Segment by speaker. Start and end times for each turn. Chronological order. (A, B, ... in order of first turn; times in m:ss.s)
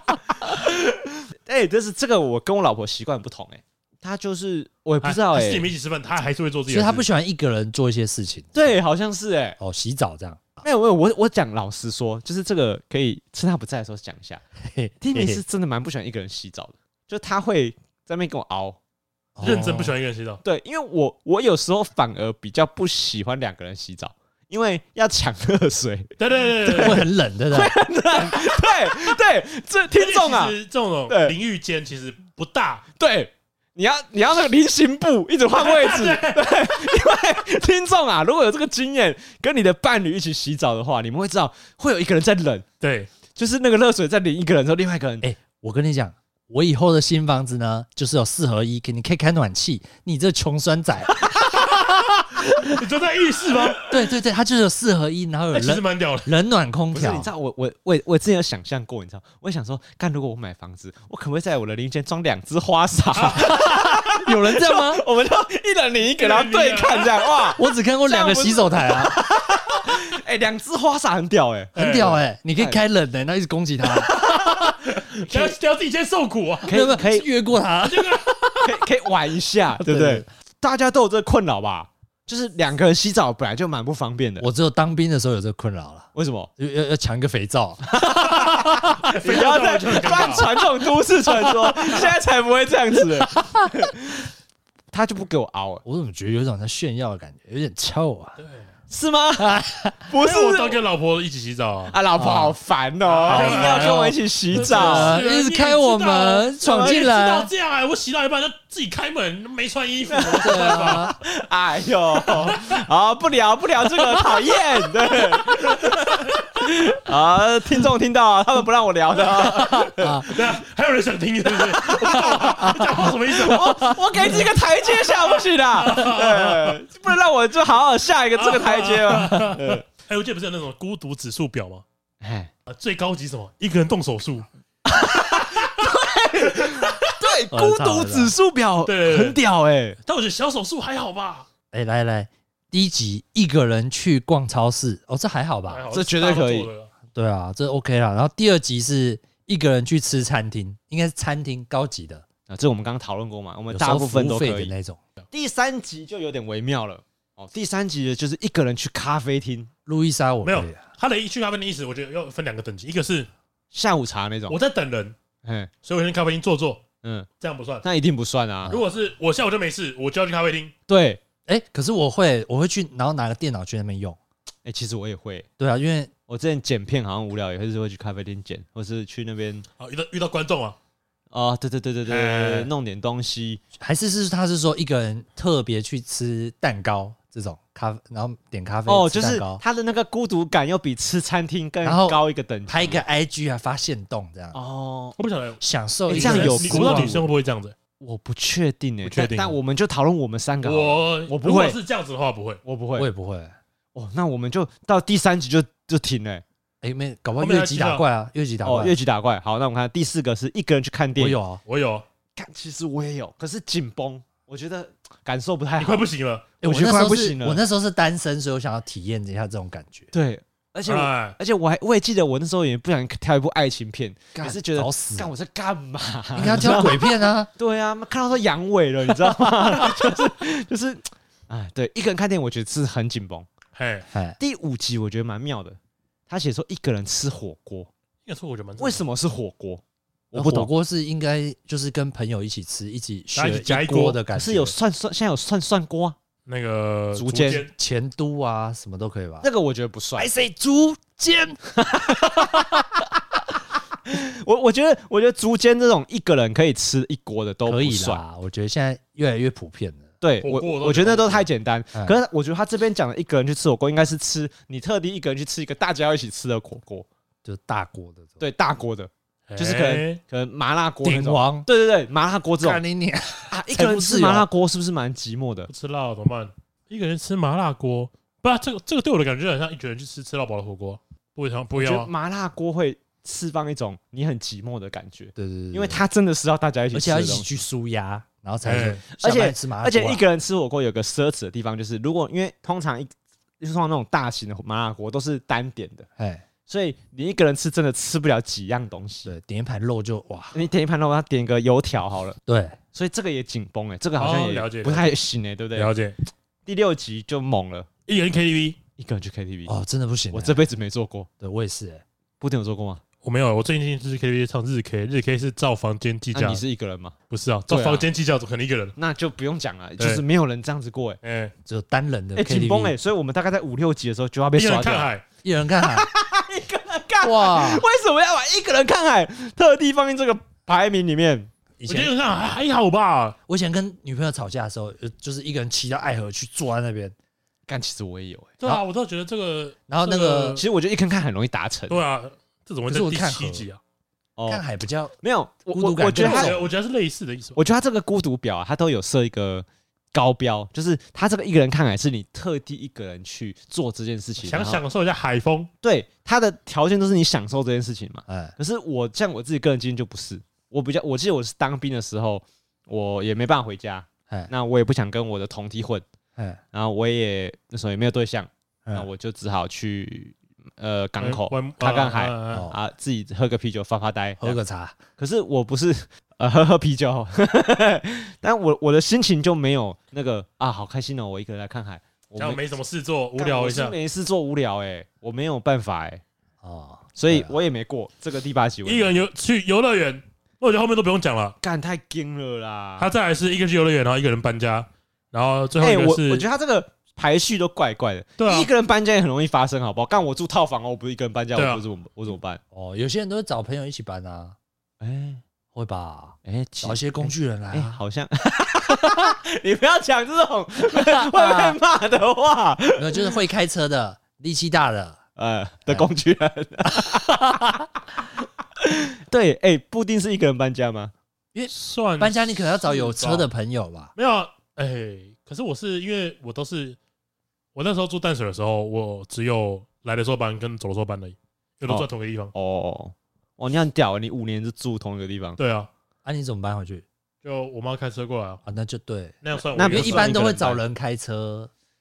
0:00.4-0:05.7 A
0:05.0-0:07.1 B
0:06.7-0:08.8 C
0:08.5-0:09.6 A
0:09.6-0:10.6 C
0:10.6-0:14.4 A
0:14.6-0:15.4 C
0:15.0-0:18.8 A
0:19.4-0:19.9 C
0:19.4-0:20.4 B
0:20.4-0:26.1 A
0:26.2-0:27.1 B
0:26.7-0:27.7 C
0:27.5-0:30.6 A
0:29.9-0:32.8 B
0:31.1-0:31.4 A
0:33.0-0:42.6 A
0:35.6-0:36.7 B
0:42.8-0:43.1 B
0:43.3-0:45.3 A
0:45.2-0:51.3 C
0:51.4-0:53.9 B
0:52.4-0:52.7 C
0:53.8-0:57.3 C
0:55.5-0:56.3 B
0:56.9-1:11.8 A
1:03.2-1:03.7 B
1:04.1-1:05.0 C
1:06.2-1:07.6 B
1:07.6-1:09.2 C
1:11.8-1:14.7 C
1:11.8-1:12.2 B
1:12.6-1:12.8 A
1:14.0-1:16.7 B
1:16.7-1:17.3 A
1:16.7-1:18.6 C
1:17.8-1:18.6 B
1:18.6-1:24.5 A
1:19.8-1:20.3 C
1:24.4-1:28.0 C
1:26.2-1:26.5 A
1:28.0-1:34.3 A
1:28.6-1:30.6 B
1:34.9-1:35.8 A
1:35.8-1:38.4 C
1:38.4-1:38.7 B
1:38.9-1:40.8 A
1:39.4-1:40.0 C
1:40.2-1:42.0 B
1:41.9-1:45.2 A
1:42.2-1:42.6 C
1:43.0-1:51.2 B
1:43.3-1:47.5 C
1:46.6-1:47.0 A
1:50.1-2:00.3 A
1:50.4-1:51.2 C
1:55.4-1:56.4 B
1:59.7-2:00.3 C
1:59.8-2:06.8 B
2:01.8-2:09.8 A
2:02.3-2:02.9 C
2:03.5-2:03.9 C
2:08.4-2:11.8 B
2:12.2-2:12.5 A
2:12.7-2:14.5 B
2:14.9-2:20.0 A
2:16.6-2:17.1 B
2:17.5-2:18.3 C
2:18.8-2:19.4 B
2:20.0-2:21.5 B
2:21.7-2:25.9 C
2:25.7-2:26.9 B
2:25.9-2:26.7 A
2:27.1-2:32.2 C
2:32.5-2:34.7 A
2:33.7-2:35.0 C
2:35.3-2:39.7 A
2:39.9-2:40.8 C
2:40.4-2:43.3 B
2:43.7-2:44.6 A
2:44.5-2:45.2 B
2:45.4-2:45.7 A
2:45.8-2:46.8 B
2:47.4-2:47.8 B
2:47.8-2:48.8 A
2:48.7-2:50.7 B
2:50.9-2:51.2 A
2:51.5-2:54.2 C
2:54.6-2:55.5 A
2:55.6-2:56.1 C
2:56.3-2:59.6 A
2:59.8-3:00.8 B
3:01.3-3:03.6 A
3:02.1-3:02.7 B
3:03.8-3:09.6 C
3:08.9-3:13.0 A
3:11.8-3:14.6 C
3:14.5-3:15.2 A
3:15.2-3:17.8 B
3:15.6-3:17.2 C
3:16.1-3:17.2 A
3:18.0-3:21.8 A
3:19.0-3:19.6 B
3:20.6-3:22.6 B
3:22.6-3:23.1 A
3:23.0-3:23.6 C
3:24.0-3:26.4 A
3:26.8-3:29.0 C
3:27.4-3:28.0 B
3:28.6-3:31.4 A
3:31.2-3:31.6 C
3:31.7-3:32.0 B
3:32.4-3:36.0 A
3:35.8-3:36.5 B
3:36.6-3:37.6 A
3:36.6-3:40.1 C
3:40.1-3:47.0 A
3:40.9-3:41.4 B
3:44.4-3:45.3 C
3:46.4-3:47.5 C
3:46.4-3:46.8 B
3:47.6-3:53.5 A
3:53.7-3:54.1 B
3:54.1-3:54.4 C
3:54.4-3:57.9 A
3:58.2-3:59.0 B
3:58.8-4:00.7 A
4:00.3-4:04.8 C
4:03.4-4:04.2 B
4:04.3-4:06.2 A
4:06.5-4:07.7 B
4:07.1-4:07.7 A
4:07.7-4:09.5 C
4:09.4-4:10.3 A
4:10.2-4:11.8 C
4:11.9-4:12.5 A
4:14.1-4:18.2 A
4:17.7-4:20.1 C
4:20.2-4:27.1 A
4:20.4-4:21.5 B
4:27.4-4:28.4 C
4:28.4-4:32.8 A
4:29.5-4:30.2 B
4:31.0-4:31.7 C
4:32.6-4:34.5 C
4:33.5-4:35.7 A
4:35.7-4:42.1 B
4:41.8-4:47.5 A
4:45.4-4:46.0 C
4:46.9-4:50.2 C
4:48.6-4:49.0 B
4:49.1-4:56.1 A
4:56.2-4:56.4 C
4:56.7-4:59.3 A
4:59.2-5:00.6 C
5:00.5-5:02.4 A
5:02.5-5:02.8 C
5:02.9-5:05.9 A
5:04.2-5:05.1 B
5:05.8-5:06.2 B
5:06.7-5:07.9 A
5:08.1-5:08.8 B
5:09.0-5:09.8 A
5:09.7-5:10.6 C
5:10.3-5:11.3 A
5:11.4-5:12.0 C
5:12.4-5:13.0 A
5:13.2-5:16.6 B
5:16.3-5:17.2 A
5:17.3-5:19.0 B
5:17.7-5:18.1 A
5:19.0-5:21.2 A
5:21.2-5:21.5 B
5:21.7-5:23.0 C
5:22.4-5:25.1 A
5:24.6-5:25.2 B
5:25.4-5:26.1 C
5:25.8-5:31.5 A
5:27.2-5:27.8 C
5:31.8-5:32.1 C
5:31.9-5:33.4 B
5:33.5-5:37.2 C
5:37.7-5:38.6 A
5:38.6-5:40.6 B
5:39.9-5:40.6 C
5:40.6-5:42.0 A
5:41.9-5:43.8 B
5:42.9-5:43.7 C
5:44.4-5:44.6 A
5:44.5-5:45.2 C
5:45.2-5:46.6 A
5:45.7-5:46.6 C
5:46.2-5:47.6 B
5:47.6-5:54.8 A
5:54.4-5:55.7 B
5:55.8-6:06.0 A
5:58.3-5:58.6 C
6:06.4-6:06.6 C
6:06.7-6:14.6 A
6:11.2-6:12.7 B
6:12.5-6:12.8 C
6:14.4-6:15.0 C
6:15.2-6:22.6 A
6:22.4-6:24.0 B
6:23.4-6:26.2 A
6:26.6-6:27.5 C
6:27.2-6:29.2 A
6:28.8-6:31.6 B
6:31.6-6:33.1 A
6:33.0-6:36.5 B
6:35.8-6:42.6 A
6:38.4-6:38.7 B
6:41.6-6:41.8 B
6:42.7-6:44.6 C
6:45.0-6:45.4 A
6:45.7-6:48.0 C
6:46.4-6:53.3 A
6:51.0-6:51.8 C
6:53.0-6:55.2 C
6:55.4-6:57.3 A
6:57.0-6:57.8 C
6:58.8-7:01.1 A
7:01.5-7:04.1 C
7:01.7-7:03.5 B
7:04.2-7:07.0 B
7:07.8-7:12.5 B
7:11.9-7:15.6 A
7:15.6-7:15.9 B
7:16.2-7:17.0 C
7:17.4-7:18.6 B
7:18.6-7:21.7 C
7:19.4-7:20.6 B
7:19.7-7:20.8 A